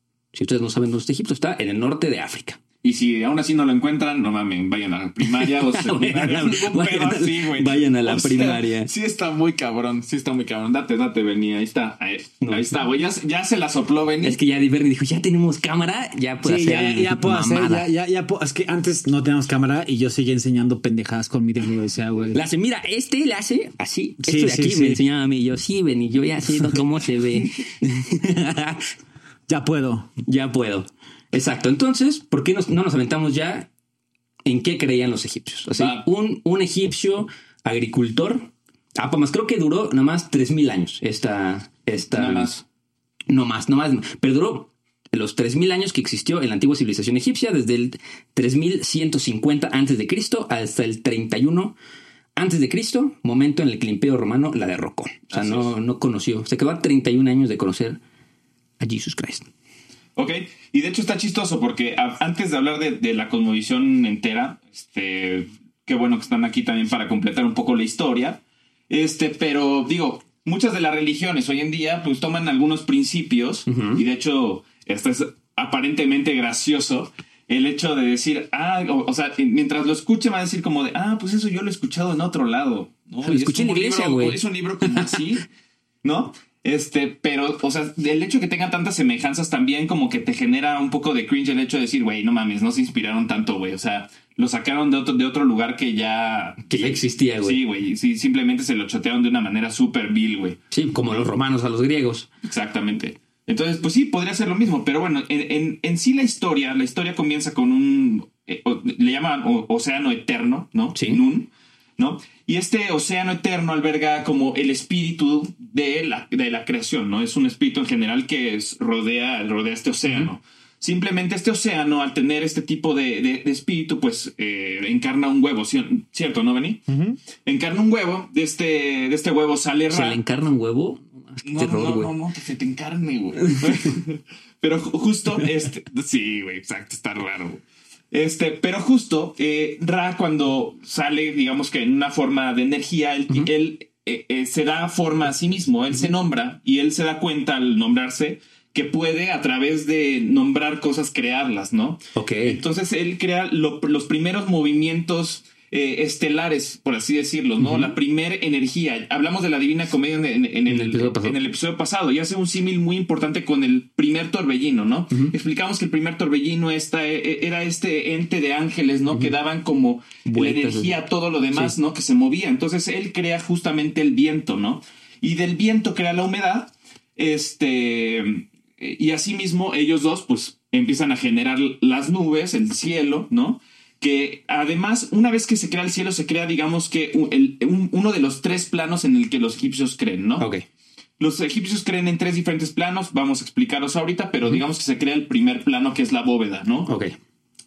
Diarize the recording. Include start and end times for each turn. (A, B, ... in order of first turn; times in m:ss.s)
0:00.3-0:02.6 A
0:02.8-0:14.4 B
0:05.4-0:08.9 A
0:12.4-0:12.8 A
0:14.2-0:17.9 A
0:16.4-0:22.4 C
0:22.3-0:28.8 A
0:24.2-0:25.0 C
0:29.5-0:30.1 C
0:30.2-0:33.7 A
0:34.4-0:42.5 A
0:35.7-0:36.0 B
0:42.1-0:42.6 B
0:43.3-0:51.7 A
0:52.4-0:58.0 A
0:55.3-0:55.7 B
0:58.8-0:59.5 A
1:00.2-1:25.4 B
1:13.7-1:14.0 A
1:23.2-1:25.2 A
1:26.0-1:41.3 B
1:36.7-1:37.6 A
1:40.7-1:42.3 A
1:42.4-2:06.8 B
1:50.9-1:51.2 A
2:06.9-2:07.2 C
2:07.4-2:10.2 B
2:09.9-2:12.1 A
2:11.4-2:17.6 B
2:13.6-2:13.9 A
2:18.1-3:10.5 B
2:32.2-2:32.6 A
2:37.6-2:37.9 A
2:40.7-2:41.4 A
2:50.2-2:51.7 A
3:10.4-3:10.6 A
3:11.2-3:16.9 B
3:16.8-3:17.1 A